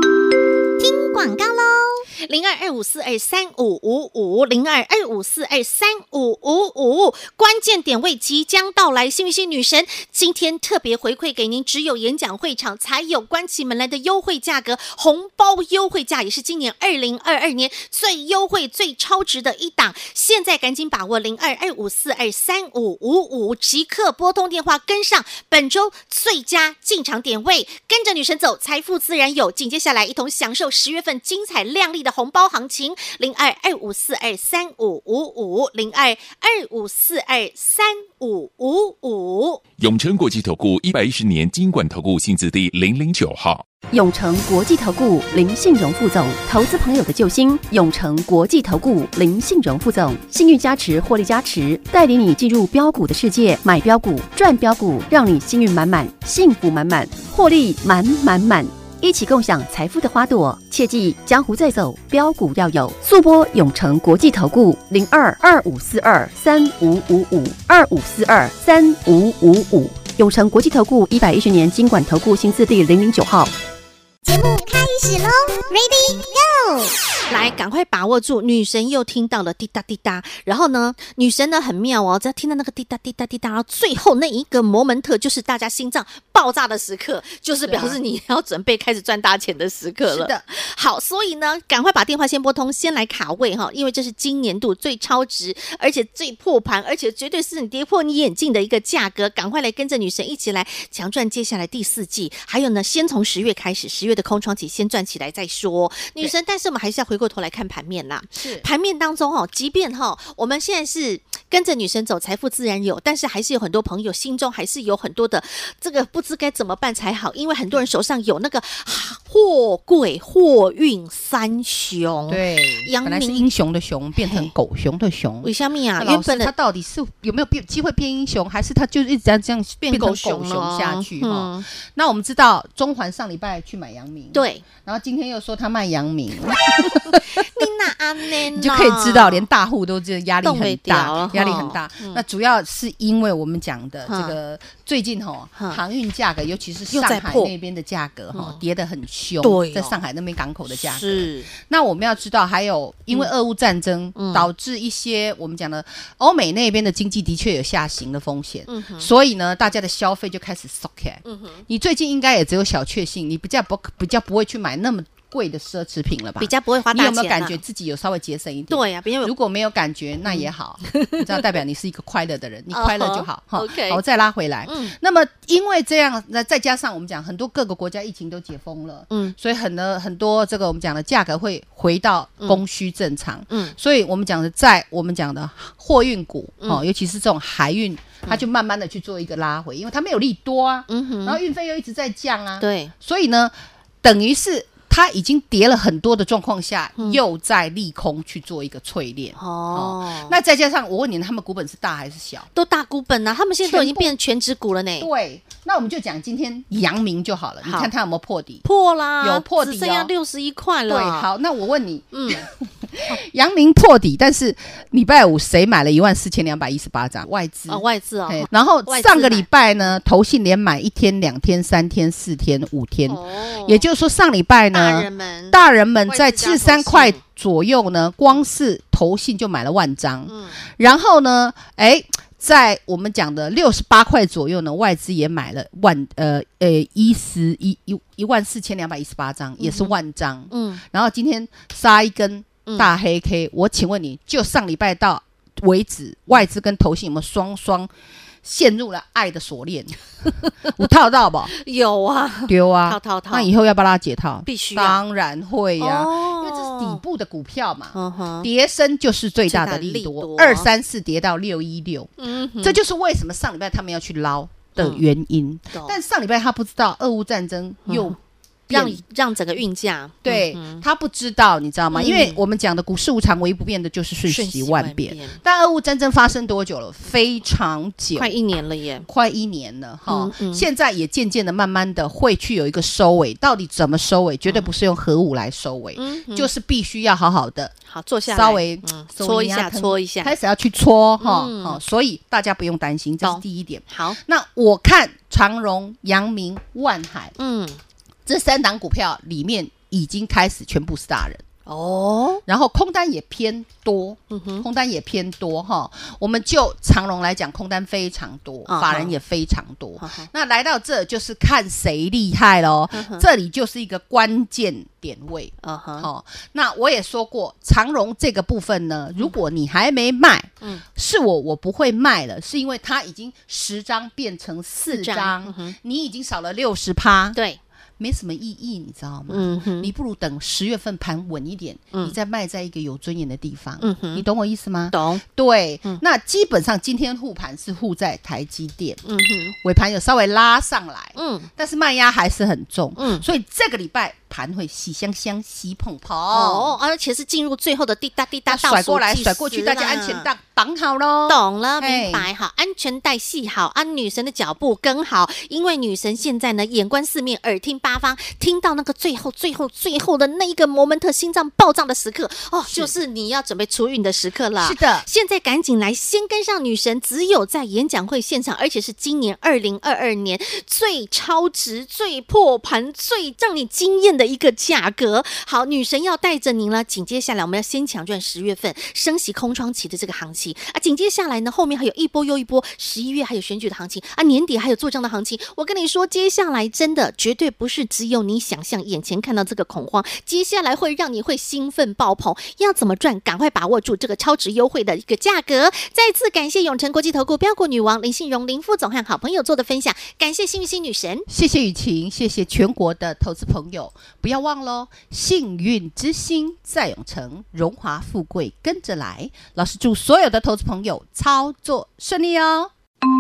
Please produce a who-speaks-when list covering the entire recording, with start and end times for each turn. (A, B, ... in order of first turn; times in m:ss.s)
0:00.8-0:02.0 A
0:02.2-0:39.6 B
0:39.8-0:43.6 C
0:43.9-1:13.5 D
1:14.2-1:16.9 A
1:17.3-2:03.4 B
1:27.6-1:28.0 E
1:30.0-1:30.4 E
1:48.3-1:48.7 E
2:02.3-2:17.7 E
2:04.2-2:04.5 B
2:05.4-2:06.5 B
2:09.8-2:11.7 B
2:14.3-2:14.6 B
2:17.1-2:19.5 B
2:18.4-3:22.5 E
2:20.4-2:22.2 B
2:24.0-2:24.4 B
2:26.9-2:27.5 B
2:28.3-2:28.6 B
2:29.4-2:29.9 B
2:30.7-2:31.5 B
2:34.2-2:34.5 B
2:38.7-2:39.1 B
2:41.2-2:41.6 B
2:46.4-2:47.6 B
2:48.7-2:49.3 B
2:50.3-2:51.2 B
2:52.7-2:54.0 B
2:54.6-2:54.9 B
2:59.1-2:59.3 B
3:03.5-3:03.7 B
3:10.9-3:11.4 B
3:12.6-3:12.9 B
3:19.4-3:20.4 B
3:22.5-3:25.1 B
3:23.6-3:24.1 E
3:25.0-3:28.6 E
3:27.6-3:27.9 B
3:28.6-3:31.3 B
3:29.2-3:30.1 E
3:30.9-4:07.9 E
3:32.1-3:32.4 B
3:37.7-3:39.5 B
3:43.1-3:43.8 B
3:44.7-3:47.2 B
3:50.3-3:50.6 B
3:59.6-3:59.9 B
4:00.5-4:00.8 B
4:02.6-4:02.9 B
4:08.4-4:11.5 E
4:11.5-4:13.5 B
4:12.5-4:28.2 E
4:14.4-4:15.0 B
4:15.8-4:17.0 B
4:17.9-4:18.5 B
4:19.5-4:20.7 B
4:22.2-4:22.8 B
4:24.8-4:25.0 B
4:25.7-4:26.0 B
4:27.9-4:28.2 B
4:28.7-4:29.0 E
4:28.7-4:30.8 B
4:30.2-4:38.3 E
4:31.9-4:32.4 B
4:34.3-4:35.4 B
4:38.2-4:39.1 B
4:39.0-4:47.7 E
4:40.1-4:40.7 B
4:46.0-4:46.5 B
4:47.9-4:50.3 B
4:48.2-4:57.3 E
4:51.2-4:51.8 B
4:53.2-4:54.2 B
4:57.4-4:57.8 B
4:58.2-5:01.4 E
5:01.6-5:02.4 B
5:02.5-5:27.4 E
5:04.3-5:04.6 B
5:08.7-5:09.2 B
5:10.0-5:10.3 B
5:12.9-5:13.2 B
5:15.6-5:16.1 B
5:24.9-5:25.7 B
5:28.0-5:39.0 E
5:29.3-5:29.9 B
5:33.8-5:34.2 B
5:34.9-5:35.2 B
5:39.0-5:39.5 B
5:39.6-5:46.7 E
5:41.2-5:41.5 B
5:43.0-5:43.2 B
5:46.3-5:50.3 B
5:48.5-5:52.2 E
5:51.3-6:41.3 B
6:02.6-6:03.0 E
6:04.6-6:05.1 E
6:41.3-6:52.7 E